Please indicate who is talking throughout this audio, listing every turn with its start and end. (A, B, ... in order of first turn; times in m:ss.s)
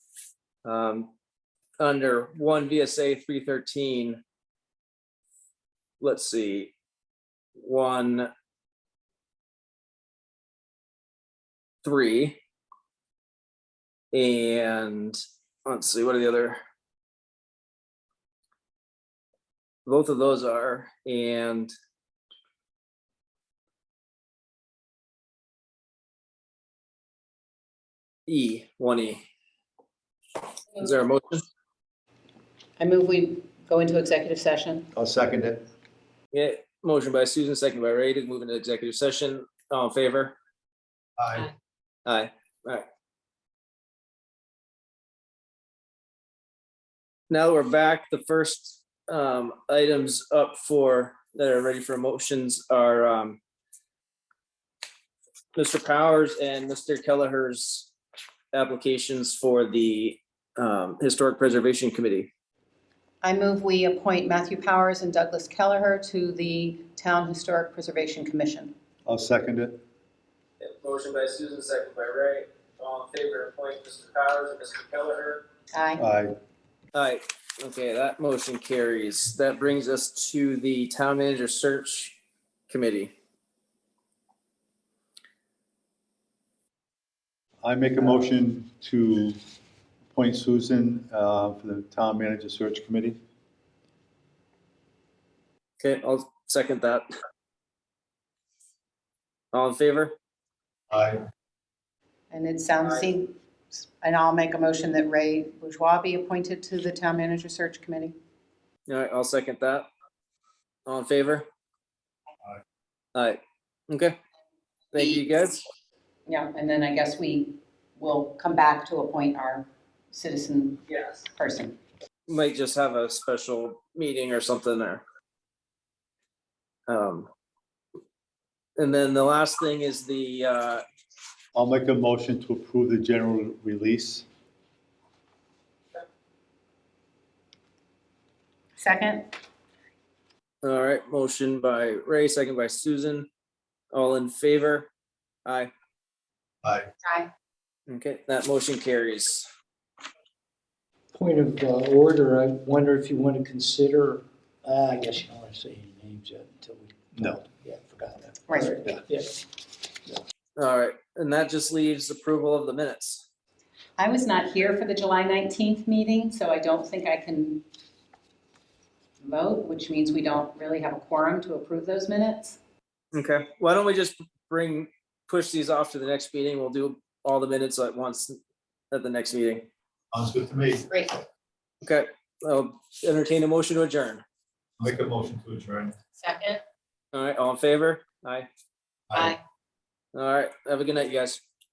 0:00.6-0:01.1 A
0:01.8-0:04.2 A
0:06.0-0:06.7 A
0:07.6-0:08.3 A
0:11.8-0:12.4 A
0:14.1-0:16.6 A
0:19.8-0:21.7 A
0:28.3-0:29.2 A
0:30.7-0:31.4 A
0:32.8-0:34.8 B
0:34.9-0:35.6 C
0:36.3-0:40.4 A
0:41.2-0:41.5 C
0:42.0-0:42.8 A
0:47.3-0:53.4 A
0:55.5-0:57.9 A
0:58.5-1:02.3 A
1:03.2-1:08.7 B
1:09.0-1:09.8 C
1:10.6-1:15.4 A
1:15.7-1:16.0 B
1:16.0-1:16.3 C
1:16.9-1:22.2 A
1:22.7-1:23.1 A
1:27.6-1:29.4 C
1:30.1-1:33.2 C
1:35.8-1:37.0 A
1:39.5-1:40.1 A
1:40.9-1:41.2 C
1:42.3-1:48.1 B
1:48.9-1:49.9 A
1:50.8-1:51.4 A
1:53.1-1:54.2 A
1:54.9-1:55.6 A
1:56.3-2:00.8 B
2:00.9-2:01.2 A
2:01.3-2:01.8 B
2:02.3-2:05.0 A
2:06.9-2:07.3 A
2:08.8-2:10.8 A
2:11.5-2:14.2 C
2:18.8-2:19.3 B
2:20.6-2:23.3 A
2:23.9-2:24.9 A
2:25.4-2:25.7 A
2:27.0-2:27.3 B
2:27.9-2:29.5 A
2:31.1-2:39.4 D
2:38.5-2:38.8 B
2:40.6-2:43.3 A
2:44.0-2:47.6 B
2:49.2-2:52.6 B
2:53.1-2:58.4 A
2:58.9-2:59.6 A
3:00.1-3:00.9 C
3:00.9-3:01.2 B
3:01.8-3:04.2 A
3:04.8-3:05.9 C
3:06.2-3:06.6 B
3:07.1-3:08.5 A
3:09.1-3:09.4 C
3:10.1-3:11.4 A